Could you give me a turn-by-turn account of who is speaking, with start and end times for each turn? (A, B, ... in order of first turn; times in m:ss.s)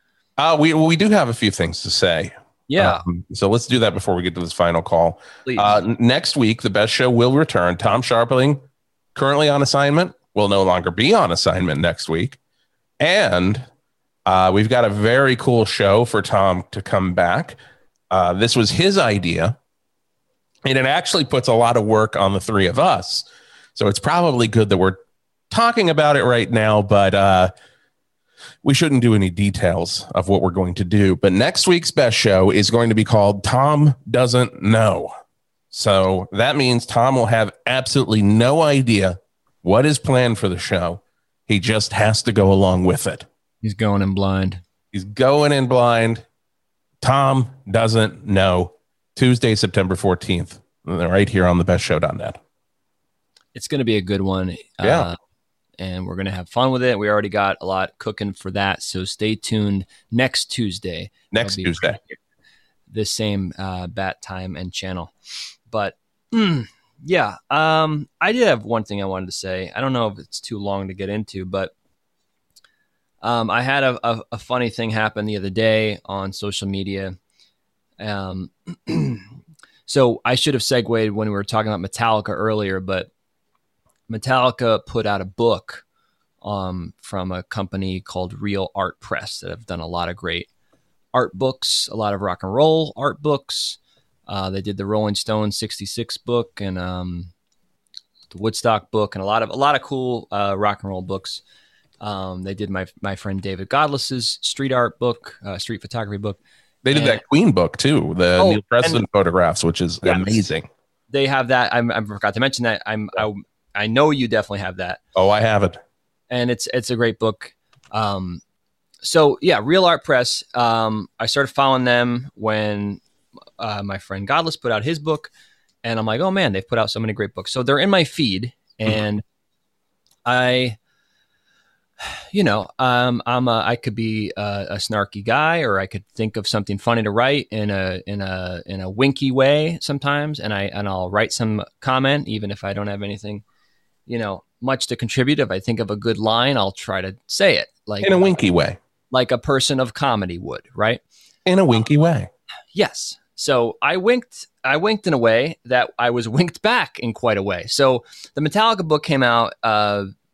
0:00.4-0:08.6 A
0:02.7-0:03.0 B
0:05.4-0:05.8 B
0:09.1-0:12.4 A
0:13.0-0:13.6 A
0:14.2-0:17.6 A
0:18.1-0:19.6 A
0:20.6-0:27.5 A
0:28.6-0:35.1 A
0:35.7-0:43.2 A
0:43.6-0:44.6 B
0:44.9-0:46.2 A
0:47.0-0:52.4 A
0:53.5-0:55.2 B
0:54.8-0:55.1 A
0:55.8-1:02.2 B
1:01.3-1:02.0 A
1:02.9-1:05.1 B
1:05.7-1:11.7 B
1:13.2-1:17.2 B
1:18.0-1:19.3 B
1:19.9-1:23.1 B
1:24.1-1:25.8 B
1:26.4-1:30.5 B
1:31.1-1:37.3 B
1:38.3-1:41.4 B
1:42.0-1:46.4 B
1:46.8-1:50.7 A
1:46.9-1:47.2 B
1:48.4-1:49.0 B
1:50.0-1:50.4 B
1:51.1-1:55.0 B
1:55.1-1:55.8 A
1:56.3-1:58.4 B
1:59.0-2:03.0 B
2:03.6-2:05.3 B
2:05.8-2:09.2 B
2:10.2-2:10.8 B
2:12.3-2:23.4 B
2:24.1-2:28.4 B
2:28.0-2:28.8 A
2:29.1-2:31.0 B
2:31.4-2:32.3 A
2:32.7-2:40.1 B